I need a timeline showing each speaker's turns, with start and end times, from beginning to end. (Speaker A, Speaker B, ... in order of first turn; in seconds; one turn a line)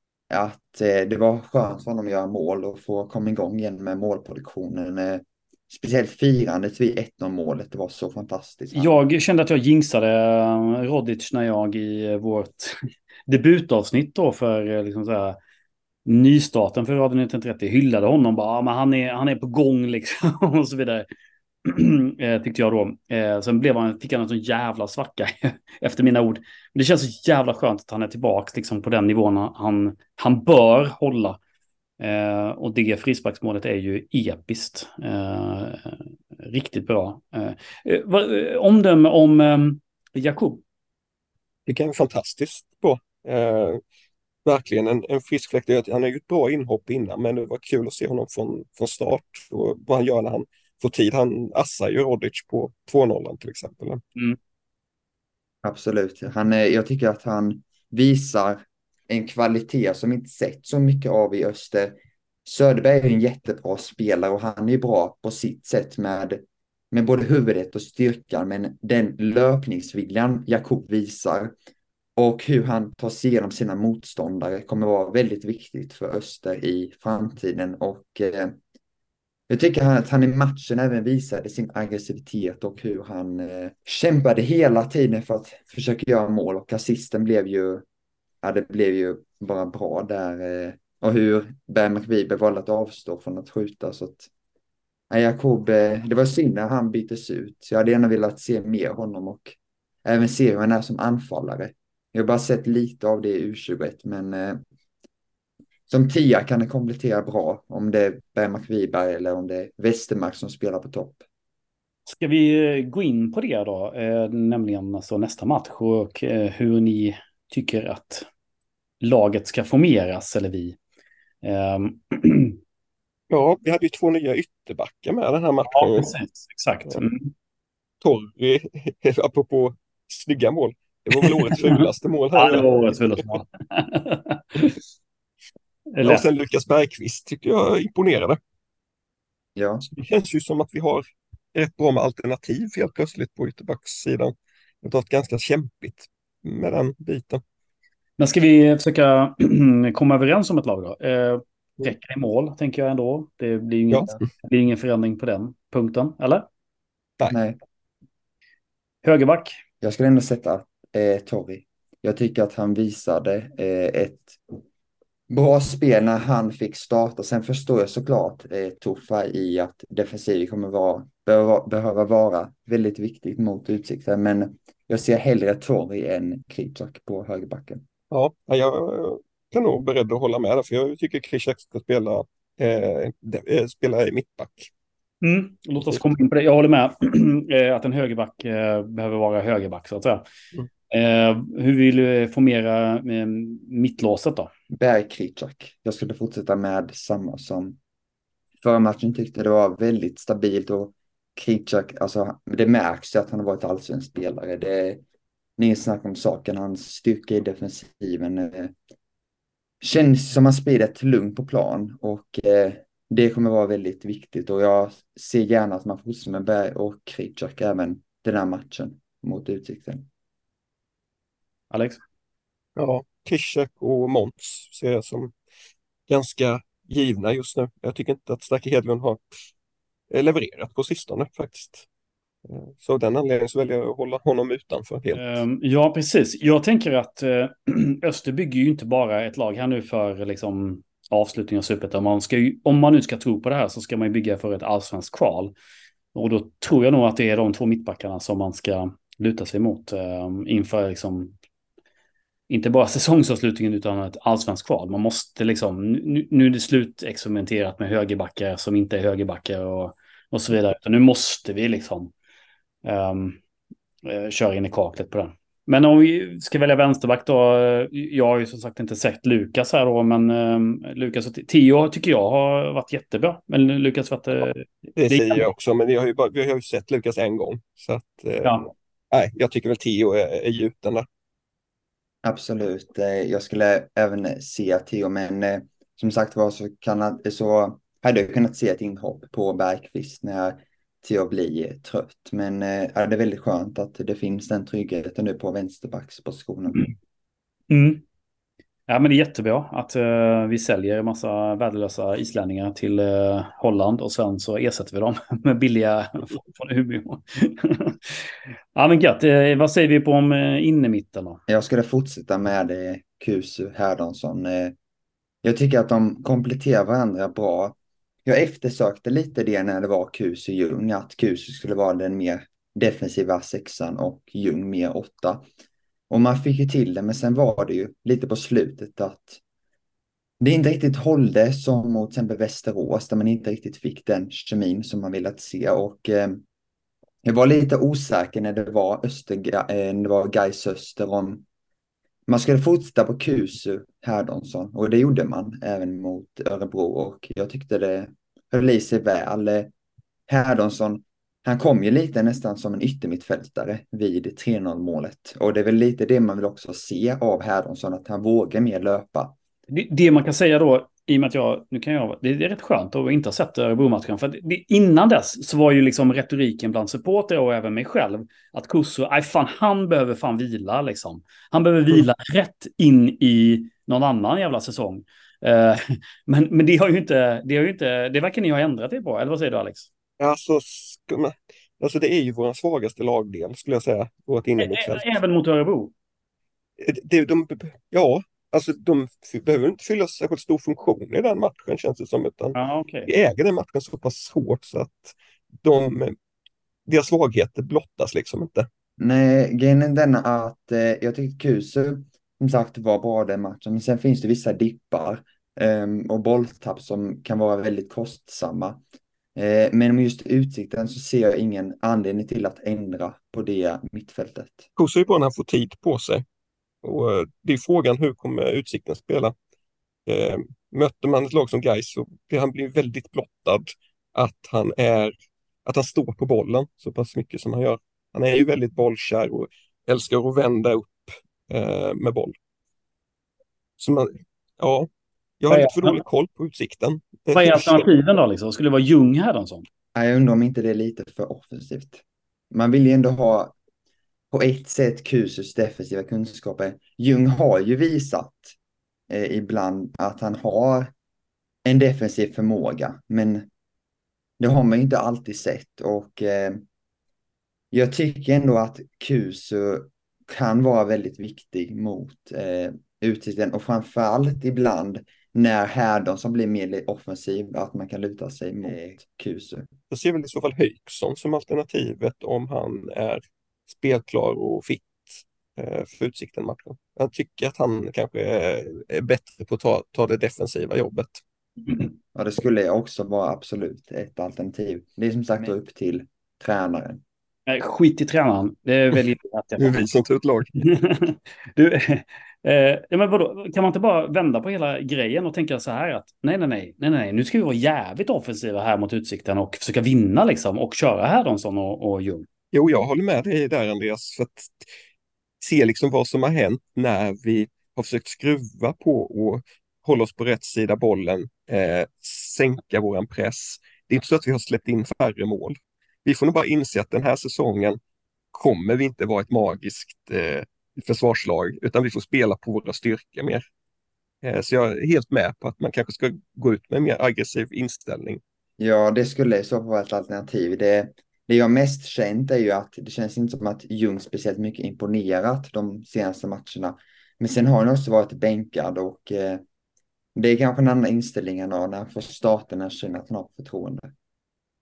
Speaker A: 0.3-8.9
Speaker B: 8.7-15.4
Speaker B: 16.0-21.1
Speaker B: 21.6-31.4
Speaker B: 32.0-40.6
Speaker C: 41.7-43.8
Speaker C: 44.5-54.0
Speaker A: 55.6-71.5
Speaker A: 72.2-78.6
Speaker A: 79.5-87.8
Speaker A: 88.4-94.3
Speaker A: 95.1-104.6
Speaker A: 105.9-111.2
Speaker B: 112.1-118.3
Speaker B: 119.0-120.8
Speaker B: 121.4-122.6
Speaker C: 123.3-126.1
Speaker B: 125.7-127.3
Speaker C: 128.0-132.9
Speaker B: 131.2-131.8
Speaker B: 132.3-134.7
Speaker B: 135.9-136.2
Speaker C: 136.0-138.4
Speaker A: 139.6-139.8
Speaker C: 139.9-141.0
Speaker C: 141.5-147.4
Speaker B: 148.2-156.4
Speaker A: 157.3-157.6
Speaker B: 159.0-159.6
Speaker A: 159.8-164.6
Speaker A: 165.3-177.8
Speaker C: 178.1-184.7
Speaker B: 185.2-190.2
Speaker B: 190.9-194.5
Speaker A: 194.7-197.8
Speaker A: 198.6-205.0
Speaker A: 205.6-208.7
Speaker A: 209.8-220.1
Speaker B: 221.7-222.0
Speaker C: 222.8-225.3
Speaker C: 226.1-229.2
Speaker C: 230.1-231.8
Speaker C: 232.4-235.4
Speaker B: 235.1-245.5
Speaker B: 246.1-251.3
Speaker B: 252.5-262.1
Speaker B: 262.8-263.4
Speaker B: 264.0-275.5
Speaker C: 275.0-281.1
Speaker A: 282.2-296.9
Speaker B: 297.7-298.0
Speaker B: 298.9-311.4
Speaker A: 311.5-314.7
Speaker A: 315.4-325.4
Speaker A: 326.1-329.4
Speaker A: 330.4-336.4
Speaker A: 337.2-341.4
Speaker A: 342.3-349.7
Speaker A: 350.3-359.4
Speaker B: 359.7-379.9
Speaker C: 380.2-385.1
Speaker B: 384.6-385.9
Speaker C: 386.8-396.1
Speaker B: 392.5-393.1
Speaker C: 396.9-398.7
Speaker A: 399.0-408.8
Speaker A: 409.4-414.6
Speaker C: 414.8-416.2
Speaker C: 416.8-419.3
Speaker C: 420.1-425.1
Speaker C: 425.6-432.3
Speaker C: 433.8-434.9
Speaker C: 435.4-437.9
Speaker B: 435.5-436.0
Speaker B: 437.3-439.6
Speaker A: 439.9-443.5
Speaker A: 444.3-448.6
Speaker A: 449.1-450.9
Speaker A: 451.6-453.5
Speaker A: 454.4-456.6
Speaker A: 457.7-469.7
Speaker C: 469.9-481.2
Speaker A: 482.1-487.0
Speaker B: 487.5-489.8
Speaker C: 489.6-490.6
Speaker B: 490.6-502.3
Speaker C: 502.5-504.7
Speaker C: 505.4-517.8
Speaker C: 518.3-523.4
Speaker C: 524.2-528.2
Speaker A: 528.6-539.4
Speaker A: 540.1-543.9